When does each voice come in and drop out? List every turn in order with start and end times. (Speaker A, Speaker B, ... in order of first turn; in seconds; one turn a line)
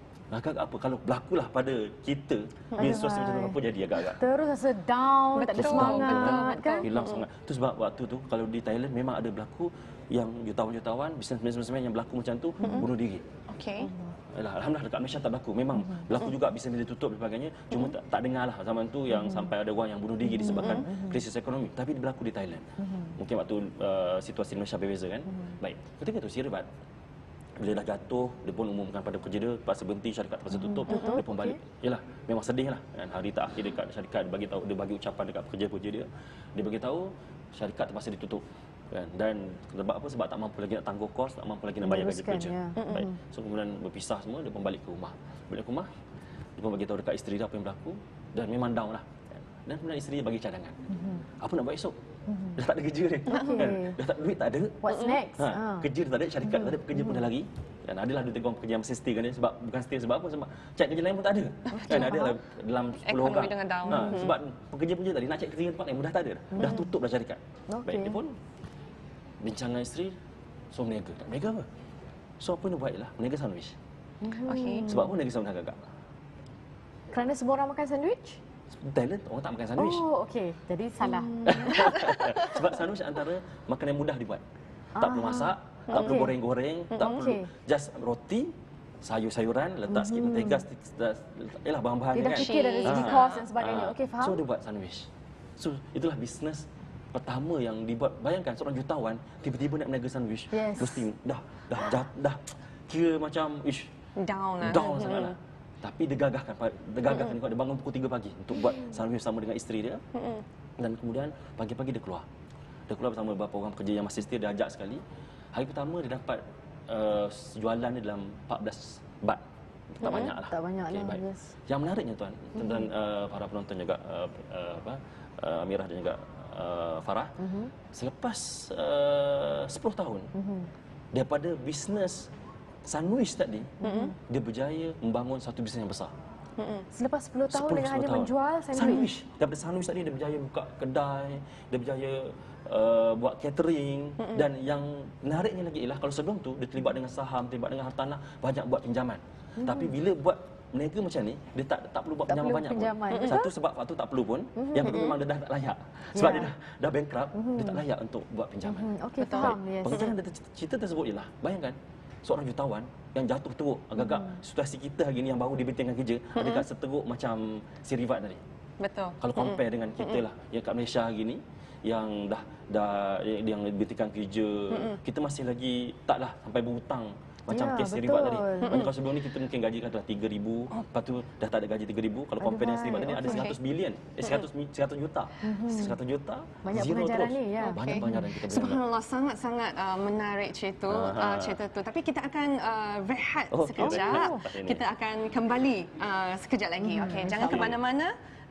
Speaker A: 0.3-4.2
Speaker B: 2.8-6.9
Speaker C: 5.3-7.2
Speaker A: 5.5-13.2
Speaker B: 12.6-12.9
Speaker C: 13.5-13.9
Speaker B: 13.8-14.1
Speaker A: 14.3-26.7
Speaker B: 15.8-16.1
Speaker B: 19.1-19.5
Speaker B: 20.2-21.2
Speaker C: 20.4-20.9
Speaker B: 22.8-23.1
Speaker A: 27.6-45.9
Speaker B: 30.6-31.6
Speaker C: 30.9-31.3
Speaker B: 41.8-43.2
Speaker C: 42.8-43.1
Speaker A: 46.6-50.8
Speaker B: 50.9-51.2
Speaker A: 51.4-51.9
Speaker B: 52.3-52.6
Speaker A: 52.5-68.4
Speaker B: 53.3-54.0
Speaker B: 54.8-55.9
Speaker C: 54.9-55.2
Speaker B: 56.4-57.2
Speaker B: 61.7-62.4
Speaker C: 63.0-64.4
Speaker B: 63.9-64.2
Speaker B: 66.5-66.9
Speaker B: 67.7-68.2
Speaker A: 69.4-70.1
Speaker A: 70.7-71.6
Speaker A: 72.4-73.8
Speaker B: 74.2-75.2
Speaker C: 74.4-74.9
Speaker A: 74.9-75.8
Speaker B: 77.1-78.4
Speaker A: 78.7-80.0
Speaker B: 79.8-81.9
Speaker C: 81.0-82.6
Speaker A: 81.5-84.4
Speaker B: 84.9-86.3
Speaker A: 85.0-103.9
Speaker C: 85.9-86.2
Speaker B: 87.0-87.5
Speaker B: 89.9-90.6
Speaker B: 92.1-94.4
Speaker C: 92.3-93.5
Speaker B: 100.5-101.1
Speaker C: 104.2-105.3
Speaker A: 104.6-110.0
Speaker C: 107.1-107.4
Speaker C: 110.1-110.4
Speaker A: 110.8-112.2
Speaker A: 112.9-115.0
Speaker A: 115.5-119.4
Speaker A: 119.9-127.3
Speaker C: 120.0-120.3
Speaker B: 120.2-121.5
Speaker B: 122.6-122.8
Speaker B: 127.4-127.7
Speaker A: 127.9-130.3
Speaker B: 130.3-130.7
Speaker A: 131.1-132.3
Speaker A: 132.9-136.1
Speaker B: 133.8-134.2
Speaker C: 133.8-134.1
Speaker C: 136.6-136.8
Speaker B: 136.9-139.1
Speaker A: 137.5-168.4
Speaker C: 144.2-144.5
Speaker B: 149.6-149.9
Speaker B: 152.3-153.5
Speaker C: 153.1-153.4
Speaker B: 154.6-155.1
Speaker C: 154.8-155.2
Speaker B: 156.1-156.5
Speaker B: 157.3-157.8
Speaker B: 158.6-160.1
Speaker C: 159.2-160.1
Speaker B: 164.0-164.4
Speaker C: 166.3-166.7
Speaker C: 168.8-170.2
Speaker A: 169.2-188.8
Speaker C: 174.7-175.0
Speaker B: 177.5-178.8
Speaker C: 178.6-178.9
Speaker B: 182.4-183.5
Speaker C: 183.2-183.6
Speaker B: 185.4-186.0
Speaker B: 186.6-188.3
Speaker C: 187.6-198.1
Speaker A: 190.9-191.6
Speaker A: 193.5-194.8
Speaker B: 193.8-194.4
Speaker B: 196.8-197.8
Speaker A: 197.3-197.8